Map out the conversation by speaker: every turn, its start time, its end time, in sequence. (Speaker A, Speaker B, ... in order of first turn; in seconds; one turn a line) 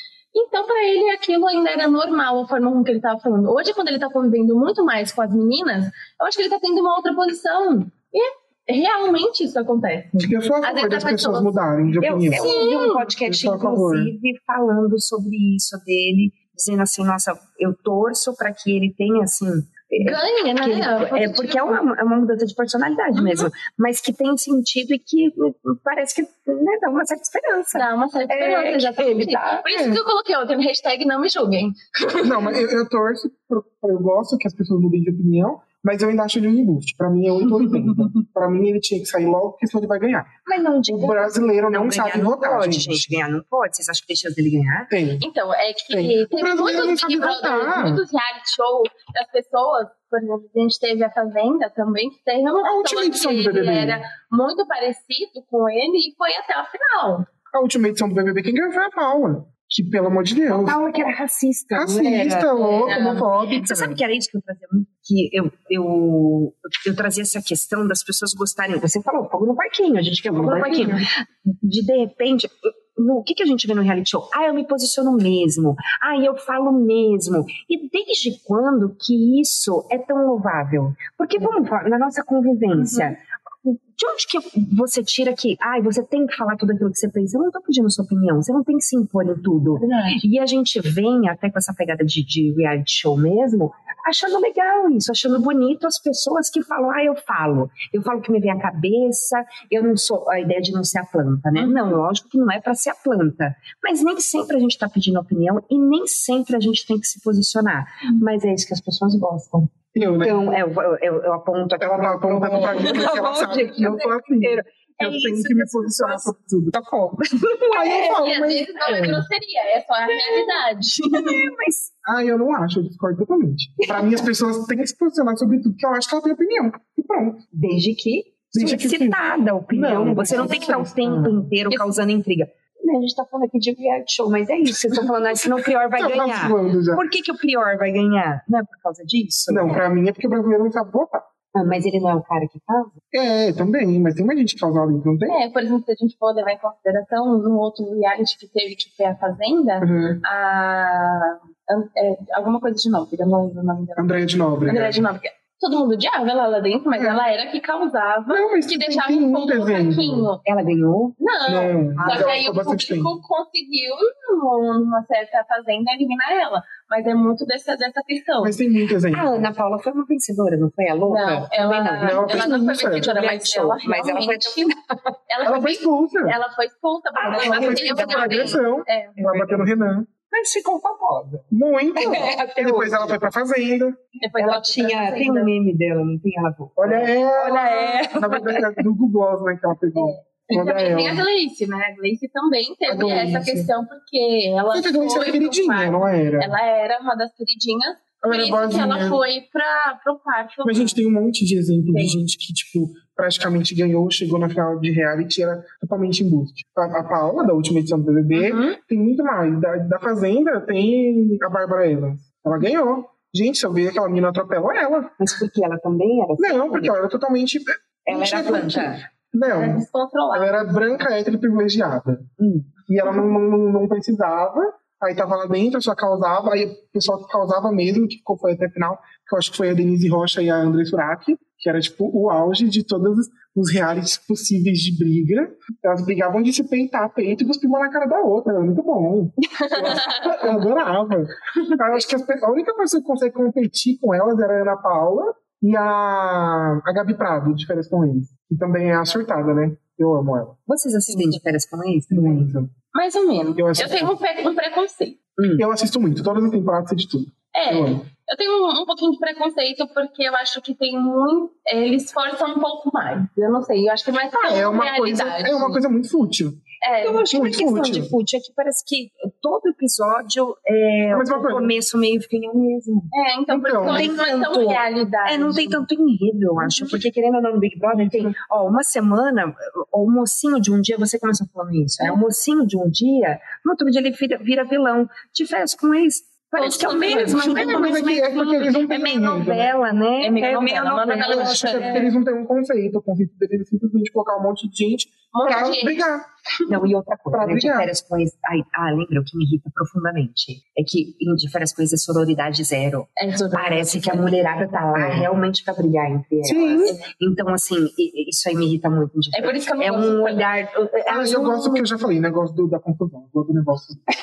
Speaker A: 0.3-11.6
Speaker B: 10.2-12.6
Speaker C: 12.0-29.7
Speaker A: 12.3-13.1
Speaker B: 13.3-14.1
Speaker A: 20.0-21.8
Speaker A: 23.1-23.5
Speaker A: 27.7-32.6
Speaker B: 29.7-30.0
Speaker B: 32.2-40.3
Speaker A: 37.7-38.1
Speaker C: 40.5-44.9
Speaker B: 40.9-43.2
Speaker B: 44.9-45.3
Speaker A: 45.2-57.3
Speaker B: 45.9-48.0
Speaker B: 52.6-54.0
Speaker B: 57.5-60.8
Speaker C: 60.5-118.3
Speaker B: 61.7-64.0
Speaker A: 62.8-63.3
Speaker B: 70.3-71.1
Speaker A: 82.8-83.2
Speaker A: 89.8-90.2
Speaker B: 109.9-110.4
Speaker B: 111.8-116.8
Speaker A: 112.7-113.1
Speaker B: 117.7-119.3
Speaker A: 118.1-121.4
Speaker C: 120.1-121.9
Speaker B: 122.0-127.5
Speaker C: 123.8-124.2
Speaker C: 127.5-139.8
Speaker B: 128.5-131.5
Speaker A: 131.7-132.0
Speaker B: 134.8-137.1
Speaker B: 139.5-141.3
Speaker C: 141.5-143.0
Speaker B: 143.1-145.4
Speaker A: 145.3-160.4
Speaker B: 149.8-150.2
Speaker B: 154.0-155.0
Speaker B: 156.9-157.2
Speaker B: 158.3-160.3
Speaker C: 160.4-161.2
Speaker A: 161.2-168.6
Speaker B: 161.5-163.2
Speaker C: 161.9-162.4
Speaker B: 168.4-169.5
Speaker C: 169.1-175.1
Speaker A: 171.1-174.7
Speaker B: 172.0-173.1
Speaker A: 175.3-179.3
Speaker B: 175.4-176.4
Speaker C: 177.2-178.6
Speaker B: 177.3-180.1
Speaker C: 179.2-179.7
Speaker C: 180.3-183.2
Speaker B: 181.5-184.0
Speaker A: 184.2-185.5
Speaker C: 184.4-187.2
Speaker B: 186.8-191.2
Speaker A: 187.4-188.5
Speaker C: 188.3-188.6
Speaker A: 189.9-201.0
Speaker B: 192.9-193.7
Speaker B: 194.7-196.6
Speaker B: 198.2-199.2
Speaker B: 200.6-215.2
Speaker A: 201.9-202.2
Speaker A: 208.3-208.8
Speaker C: 215.2-216.9
Speaker B: 216.4-222.3
Speaker C: 218.1-219.1
Speaker A: 219.5-221.0
Speaker C: 222.4-222.7
Speaker B: 222.9-250.6
Speaker A: 239.5-240.6
Speaker C: 250.7-252.5
Speaker A: 251.1-251.4
Speaker B: 252.1-252.7
Speaker A: 252.9-255.2
Speaker B: 253.6-254.1
Speaker C: 255.4-255.6
Speaker B: 255.6-258.0
Speaker A: 257.5-265.8
Speaker B: 264.3-266.6
Speaker A: 266.8-267.3
Speaker C: 267.0-273.1
Speaker B: 267.3-268.1
Speaker B: 271.1-271.7
Speaker A: 273.1-275.8
Speaker B: 273.5-274.1
Speaker C: 273.8-292.0
Speaker A: 276.6-276.9
Speaker B: 277.9-278.4
Speaker A: 286.6-288.0
Speaker B: 287.4-289.7
Speaker A: 290.2-292.1
Speaker B: 291.3-296.3
Speaker A: 295.3-296.1
Speaker C: 296.7-311.9
Speaker B: 297.3-297.9
Speaker A: 303.2-304.4
Speaker B: 304.9-305.3
Speaker B: 306.4-307.0
Speaker A: 306.8-307.1
Speaker A: 309.3-310.5
Speaker B: 311.1-314.0